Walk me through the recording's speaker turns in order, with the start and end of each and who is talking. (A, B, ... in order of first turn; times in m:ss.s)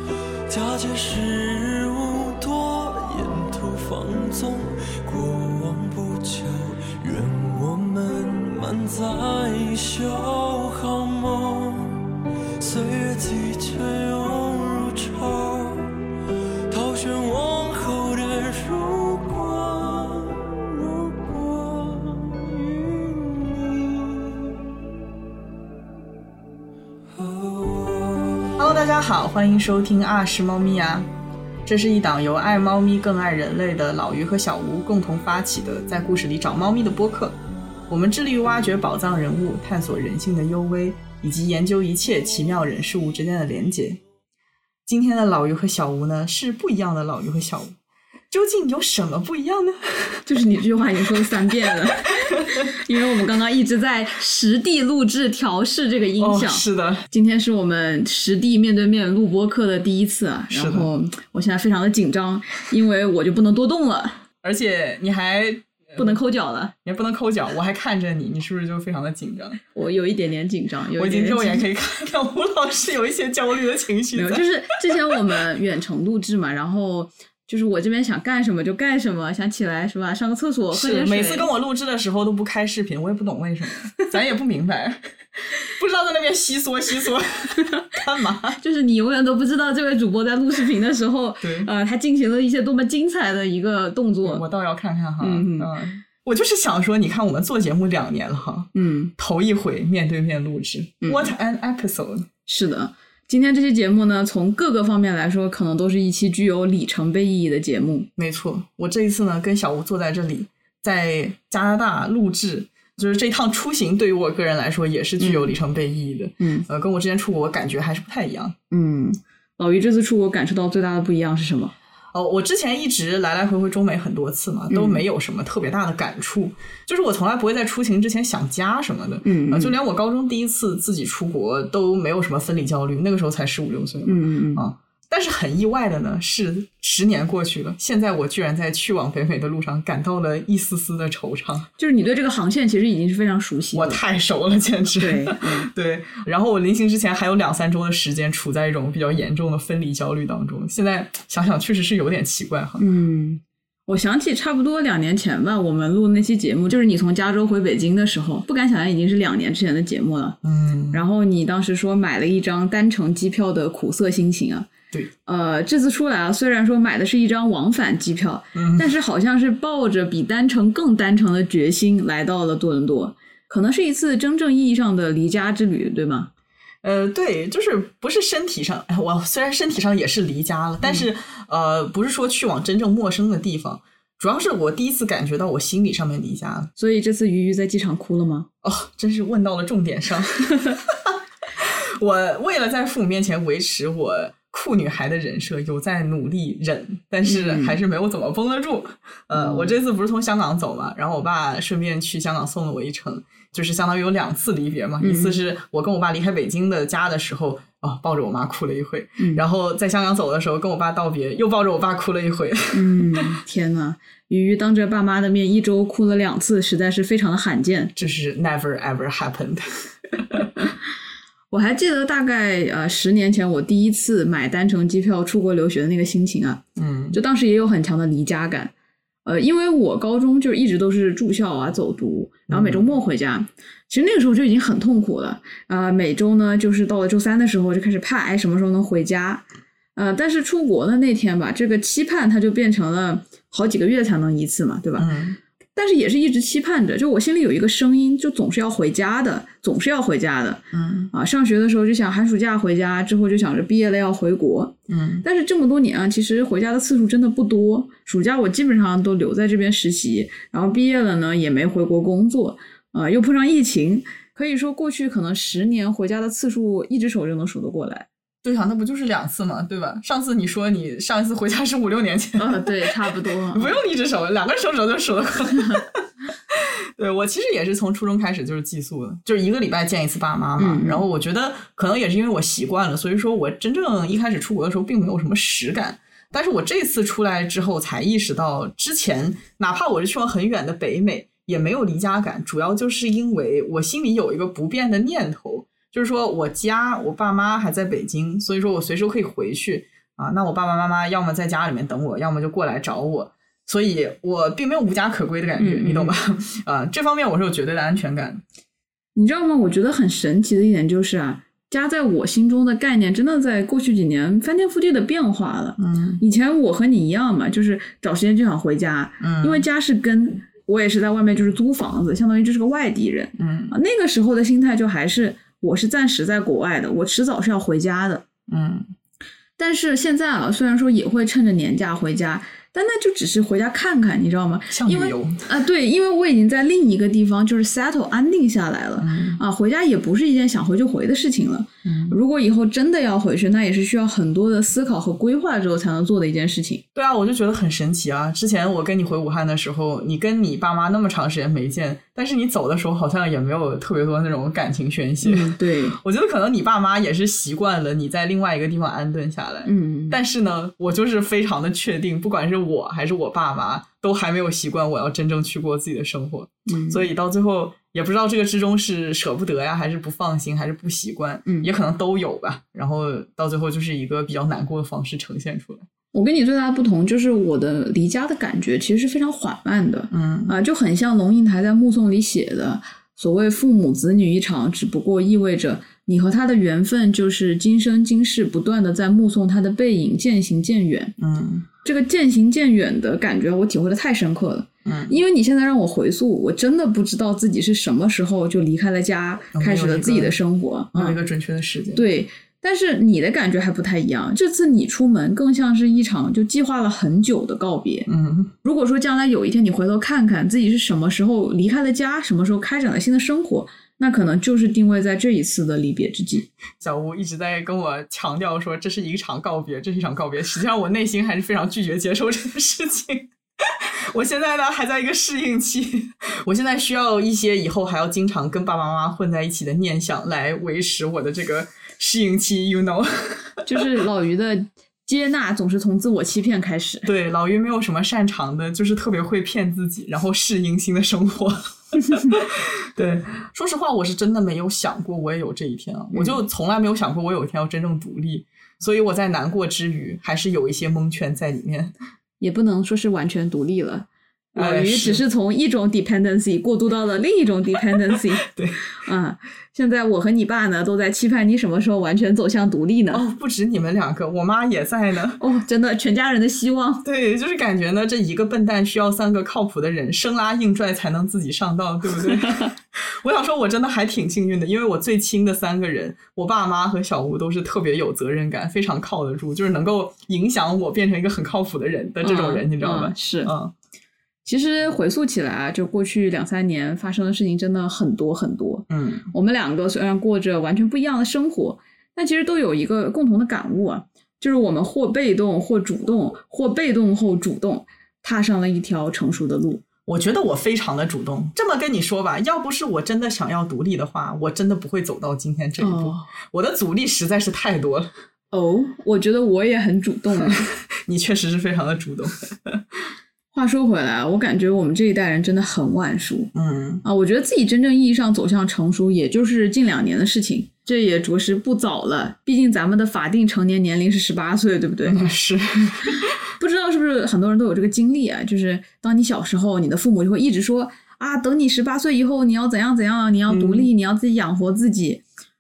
0:00.5-0:15.9 A
0:16.7-0:24.6 A
0:27.1-0:28.6 A
0:28.6-0:31.1 B
0:31.7-0:37.4 B
0:37.9-0:44.0 B
0:44.9-0:47.8 B
0:48.3-0:50.2 B
0:50.3-1:04.2 C
0:52.1-0:52.4 B
0:56.2-0:57.1 B
1:00.5-1:00.9 B
1:04.4-1:06.2 B
1:06.0-1:06.7 C
1:06.8-1:09.6 B
1:09.7-1:11.6 C
1:11.0-1:14.5 B
1:14.1-1:21.5 C
1:20.7-1:28.6 B
1:28.5-1:34.4 C
1:31.4-1:31.7 B
1:34.2-1:42.3 B
1:35.2-1:35.7 C
1:38.8-1:39.1 C
1:41.0-1:41.3 C
1:42.5-1:48.1 C
1:48.2-1:58.6 B
1:55.2-1:55.5 C
1:56.4-1:56.7 C
1:58.7-2:01.7 C
2:02.1-2:21.7 B
2:04.7-2:05.0 C
2:09.2-2:09.8 C
2:14.1-2:14.6 C
2:21.8-2:24.0 C
2:23.7-2:32.8 B
2:25.0-2:25.7 C
2:32.8-2:40.4 C
2:40.4-2:41.0 B
2:40.9-2:44.7 C
2:45.3-2:56.3 C
2:48.6-2:49.0 B
2:56.8-3:06.7 B
3:06.8-3:08.5 C
3:08.6-3:33.3 B
3:17.2-3:17.8 C
3:19.3-3:19.8 C
3:25.0-3:25.4 C
3:29.2-3:29.4 C
3:32.7-3:37.9 C
3:38.0-3:40.5 B
3:41.5-3:48.7 C
3:46.8-3:47.2 B
3:49.2-3:59.4 C
3:52.5-3:52.8 B
4:00.0-4:05.1 C
4:05.0-4:05.4 B
4:05.8-4:28.1 C
4:10.7-4:11.1 B
4:14.9-4:15.2 B
4:28.4-5:08.4 B
4:32.4-4:33.8 C
4:40.6-4:41.0 C
5:05.6-5:06.1 C
5:09.2-5:28.2 C
5:15.8-5:16.2 B
5:19.2-5:19.6 B
5:23.4-5:23.8 B
5:28.5-5:28.9 B
5:29.6-5:46.8 C
5:34.7-5:35.5 B
5:39.0-5:39.4 B
5:41.8-5:42.2 B
5:47.0-6:15.9 B
5:55.2-5:56.0 C
5:59.7-6:00.2 C
6:06.7-6:07.1 C
6:16.1-6:31.2 C
6:20.1-6:20.6 B
6:31.2-6:31.7 B
6:31.8-6:41.2 C
6:34.8-6:35.2 B
6:39.6-6:40.4 B
6:40.9-6:42.0 B
6:41.9-6:48.1 C
6:48.1-6:48.5 B
6:48.6-6:56.5 C
6:56.8-7:13.9 B
7:13.7-7:17.1 C
7:17.0-7:31.9 B
7:32.4-7:43.2 C
7:34.6-7:35.2 B
7:38.4-7:38.8 B
7:43.1-7:45.4 B
7:45.4-7:47.0 C
7:47.0-8:03.7 B
7:52.3-7:52.7 C
8:02.2-8:03.5 C
8:04.4-8:19.8 C
8:08.9-8:09.3 B
8:20.1-8:28.1 B
8:25.8-8:26.3 C
8:28.5-8:30.7 C
8:30.4-8:32.8 B
8:33.5-8:36.5 C
8:36.5-8:37.0 B
8:37.0-8:45.3 C
8:45.0-8:46.3 B
8:46.0-8:55.2 C
8:53.5-8:53.9 B